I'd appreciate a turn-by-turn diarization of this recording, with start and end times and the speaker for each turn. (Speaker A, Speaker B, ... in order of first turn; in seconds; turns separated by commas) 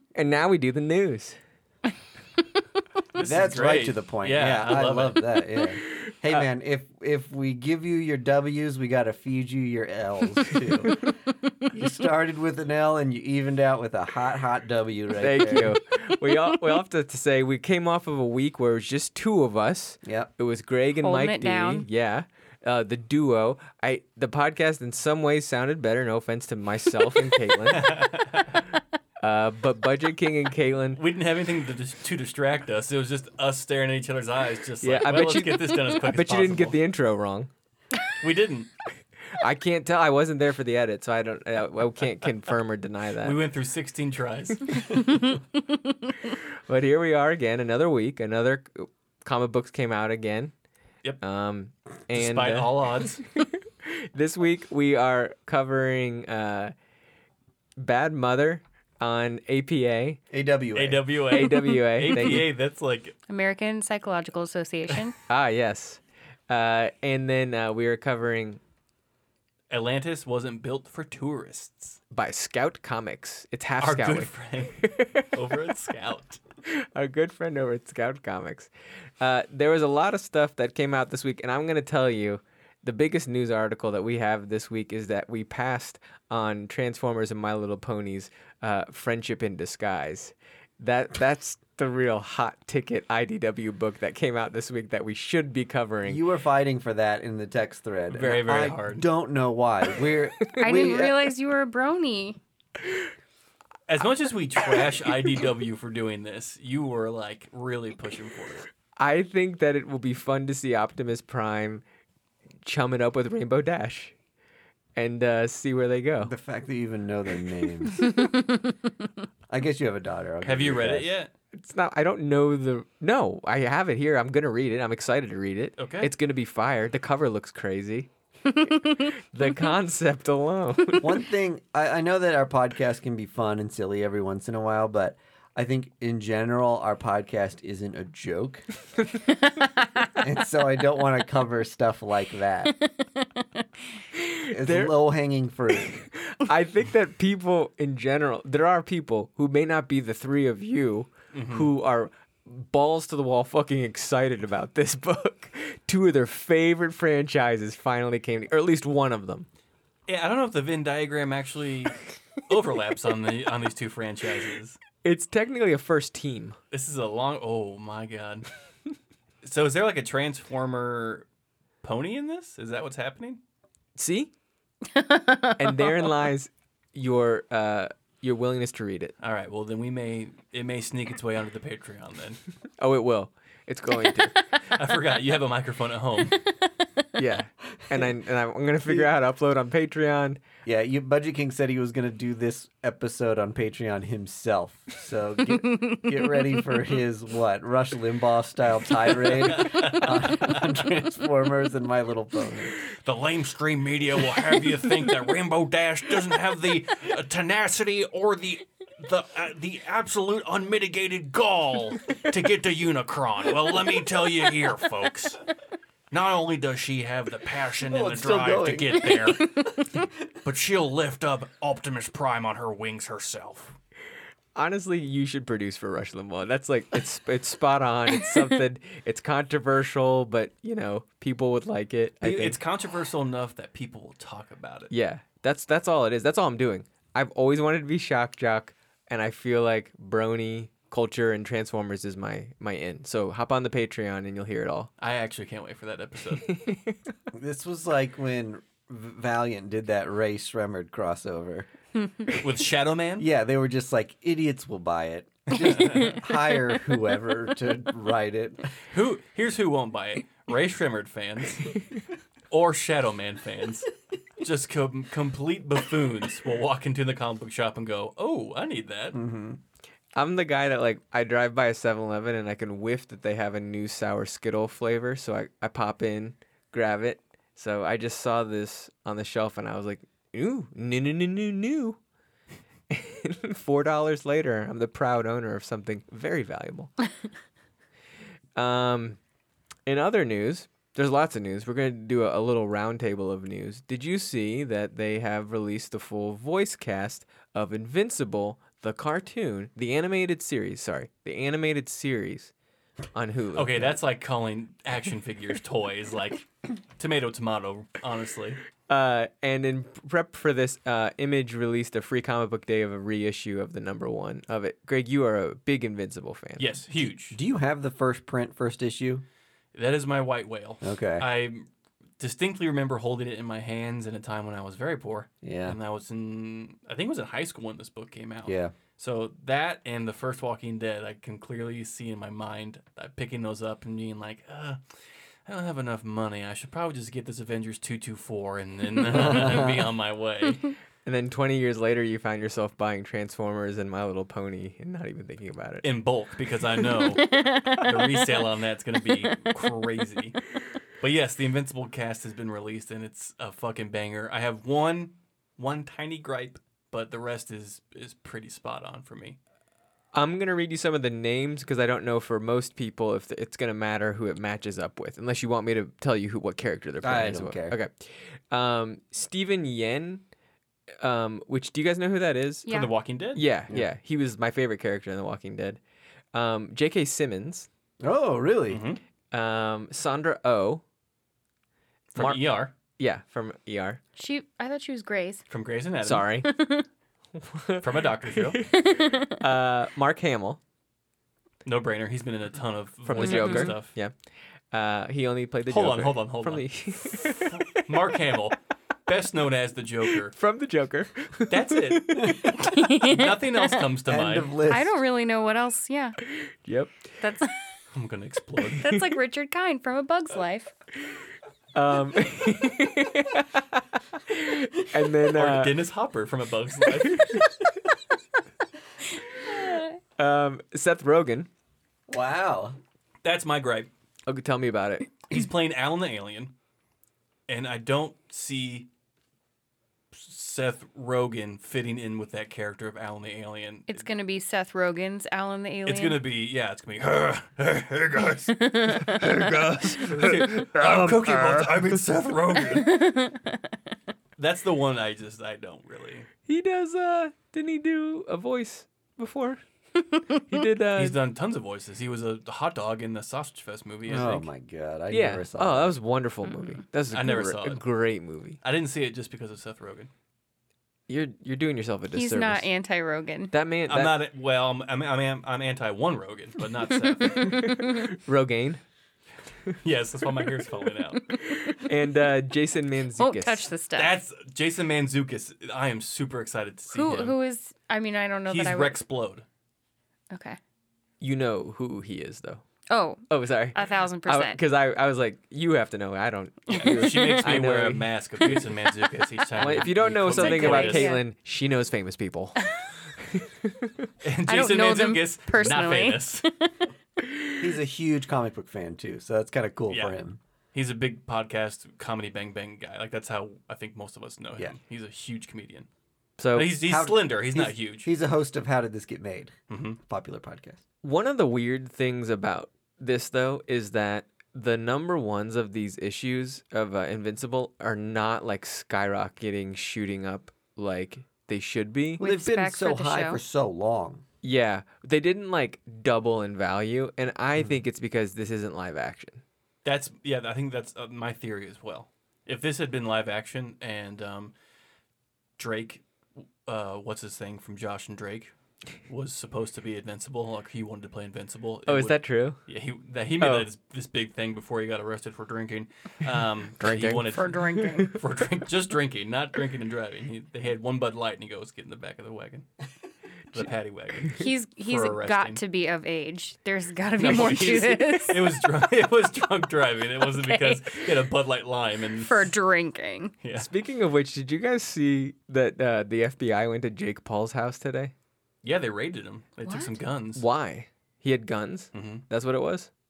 Speaker A: 0.1-1.4, Speaker B: 3.1-5.2, Speaker C: 3.2-11.1, Speaker C: 11.7-15.8, Speaker A: 15.2-27.9, Speaker C: 20.0-20.3, Speaker D: 21.0-21.9, Speaker B: 27.6-28.6, Speaker A: 29.2-31.0, Speaker B: 30.9-36.8, Speaker A: 34.8-37.5, Speaker B: 38.2-38.7, Speaker A: 39.4-43.4, Speaker B: 43.2-45.2, Speaker D: 44.9-46.3, Speaker A: 46.5-50.5, Speaker A: 51.2-56.7, Speaker B: 52.1-53.2, Speaker A: 57.8-60.2, Speaker C: 60.3-61.2, Speaker B: 60.7-63.1, Speaker A: 61.3-62.5, Speaker D: 63.3-65.1, Speaker A: 65.3-68.6, Speaker B: 69.7-72.0, Speaker A: 72.1-75.7, Speaker B: 73.8-76.4, Speaker A: 76.7-96.2, Speaker C: 96.0-101.3, Speaker B: 98.1-99.1, Speaker D: 100.5-102.4, Speaker B: 103.9-108.7, Speaker A: 109.0-111.8, Speaker A: 112.6-114.1, Speaker A: 115.0-116.3, Speaker C: 116.2-118.2, Speaker D: 117.9-118.9, Speaker C: 119.5-121.1, Speaker B: 120.4-121.3, Speaker A: 121.5-128.1, Speaker B: 125.8-126.1, Speaker D: 128.4-129.1, Speaker A: 129.2-131.2, Speaker C: 131.0-138.7, Speaker D: 139.5-140.0, Speaker C: 140.1-142.8, Speaker D: 142.8-143.6, Speaker A: 144.2-144.9, Speaker C: 144.4-146.0, Speaker A: 145.8-159.5, Speaker B: 151.3-151.7, Speaker B: 160.1-164.8, Speaker A: 165.0-166.6, Speaker B: 166.7-168.5, Speaker B: 169.4-171.2, Speaker B: 171.8-173.4, Speaker A: 173.9-174.3, Speaker D: 174.9-176.1, Speaker A: 175.6-179.1, Speaker B: 179.2-182.4, Speaker A: 182.8-184.3, Speaker B: 184.7-186.4, Speaker A: 187.2-190.4, Speaker C: 190.6-202.8, Speaker D: 195.6-196.5, Speaker B: 199.2-200.7, Speaker B: 202.8-215.4, Speaker B: 216.1-219.6, Speaker C: 217.9-219.3, Speaker B: 220.4-223.8, Speaker A: 224.5-232.6, Speaker B: 232.2-234.9, Speaker A: 234.9-244.9, Speaker B: 245.0-246.5, Speaker A: 246.5-247.0, Speaker C: 247.3-251.7, Speaker B: 252.3-253.3, Speaker C: 253.2-258.7, Speaker B: 255.5-256.2, Speaker B: 258.9-261.8, Speaker B: 262.5-263.9, Speaker B: 264.4-269.2, Speaker C: 269.1-269.6, Speaker A: 270.1-282.0, Speaker A: 282.9-286.9, Speaker A: 288.5-289.2, Speaker A: 289.9-302.5, Speaker A: 303.1-304.0, Speaker B: 303.5-308.6, Speaker A: 308.9-316.7, Speaker B: 316.6-317.4, Speaker C: 317.3-319.2, Speaker B: 319.7-321.7, Speaker C: 320.8-321.3, Speaker B: 322.2-334.8, Speaker C: 325.4-325.8, Speaker C: 328.4-328.7, Speaker B: 335.4-340.6, Speaker C: 339.0-339.9, Speaker A: 341.0-345.9, Speaker B: 345.8-350.4, Speaker D: 347.0-348.4, Speaker B: 351.0-359.4, Speaker A: 360.1-370.2, Speaker C: 367.0-367.7, Speaker A: 371.0-372.8, Speaker B: 372.7-373.4, Speaker A: 373.3-375.8, Speaker A: 376.3-377.7, Speaker C: 378.0-378.8, Speaker B: 378.7-379.0, Speaker A: 379.3-380.8, Speaker B: 382.1-382.7, Speaker A: 382.1-382.4, Speaker A: 383.0-384.0, Speaker D: 384.1-385.4, Speaker B: 385.5-386.3, Speaker A: 386.0-386.5, Speaker D: 386.4-386.9, Speaker A: 387.4-390.6, Speaker B: 387.8-388.6, Speaker D: 388.7-389.4, Speaker B: 391.6-393.9, Speaker A: 393.1-394.1, Speaker D: 393.2-393.7, Speaker A: 394.7-398.1, Speaker B: 395.7-400.3, Speaker A: 400.2-402.5, Speaker B: 401.5-404.5, Speaker C: 402.2-402.5, Speaker D: 402.5-403.8, Speaker C: 404.1-404.9, Speaker D: 404.7-406.2, Speaker A: 406.6-407.1, Speaker D: 407.2-407.5, Speaker B: 407.9-408.9, Speaker D: 408.8-410.7, Speaker A: 411.7-415.8, Speaker B: 415.3-417.3, Speaker A: 416.9-417.7, Speaker D: 419.2-420.0, Speaker A: 420.2-421.5, Speaker C: 422.1-422.8, Speaker B: 423.2-423.9, Speaker A: 424.2-425.1, Speaker B: 425.2-426.5, Speaker B: 427.5-428.9, Speaker B: 430.1-434.0, Speaker D: 433.9-436.2, Speaker B: 435.9-443.0, Speaker D: 438.5-439.3, Speaker C: 439.2-441.9, Speaker D: 442.6-443.7, Speaker B: 444.4-446.3, Speaker A: 446.4-449.6, Speaker D: 450.1-450.4, Speaker A: 450.3-451.2, Speaker B: 450.9-454.5, Speaker C: 454.1-455.9, Speaker A: 455.1-458.6, Speaker D: 456.4-456.8, Speaker B: 457.1-457.8, Speaker B: 458.6-460.1, Speaker A: 461.1-462.7, Speaker D: 462.1-463.5, Speaker A: 463.5-464.2, Speaker B: 463.9-467.5, Speaker D: 467.1-468.1, Speaker A: 467.4-468.8, Speaker B: 469.8-471.2, Speaker D: 471.1-471.9, Speaker A: 471.7-473.7, Speaker D: 473.1-474.2, Speaker B: 473.9-477.4, Speaker D: 476.9-479.0, Speaker B: 478.5-479.4, Speaker D: 480.3-480.6, Speaker A: 481.2-482.6, Speaker D: 482.9-483.2, Speaker A: 483.3-488.6, Speaker D: 483.7-484.6, Speaker B: 486.7-491.1, Speaker D: 486.8-487.4, Speaker A: 489.6-492.6, Speaker D: 490.3-491.2, Speaker D: 492.6-492.9, Speaker A: 493.1-494.1, Speaker B: 494.2-496.4, Speaker D: 494.5-496.7, Speaker C: 497.6-500.4, Speaker B: 499.9-500.1, Speaker B: 500.7-505.9, Speaker A: 506.4-506.8, Speaker B: 506.5-508.1, Speaker C: 506.8-510.8, Speaker B: 509.7-510.0, Speaker A: 511.0-522.2, Speaker C: 522.2-524.2, Speaker D: 522.2-523.4, Speaker A: 524.4-529.4, Speaker B: 529.8-534.5, Speaker B: 535.6-538.5, Speaker B: 539.1-552.7, Speaker A: 541.9-542.6, Speaker A: 543.4-543.7, Speaker A: 546.8-548.1, Speaker D: 547.3-548.2, Speaker B: 553.5-555.6, Speaker D: 554.3-558.6, Speaker B: 557.2-562.5, Speaker D: 560.3-561.0, Speaker D: 562.2-563.3, Speaker B: 563.4-563.7, Speaker A: 563.5-568.1, Speaker B: 568.6-570.4, Speaker D: 569.6-569.9, Speaker A: 570.4-572.9, Speaker B: 571.9-572.2